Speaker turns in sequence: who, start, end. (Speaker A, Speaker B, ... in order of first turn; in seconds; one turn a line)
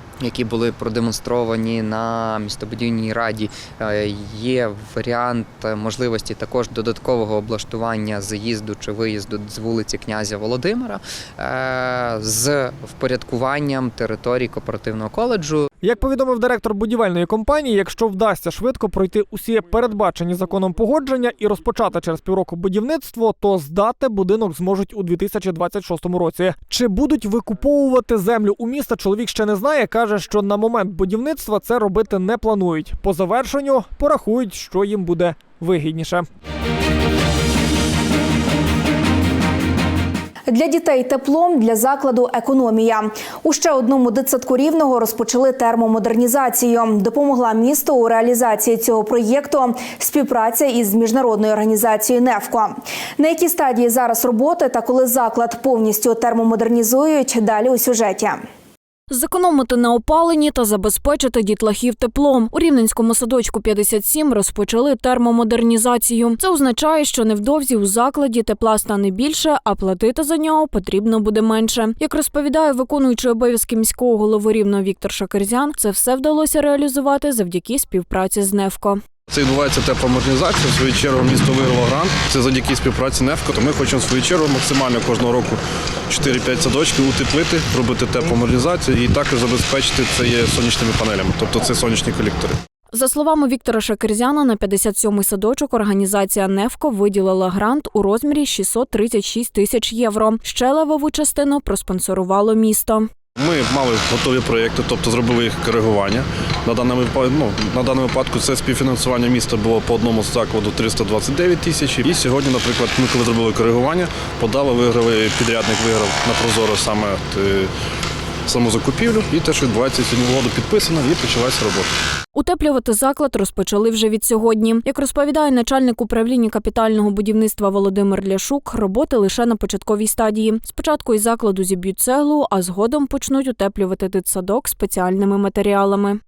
Speaker A: 0.2-15.7
Speaker B: 15.8-36.3
Speaker C: 40.5-58.4
Speaker D: 59.1-79.0
Speaker E: 79.3-92.6
Speaker D: 92.9-103.1
Speaker E: 103.4-117.7
Speaker E: 118.5-121.9
Speaker D: 122.3-136.2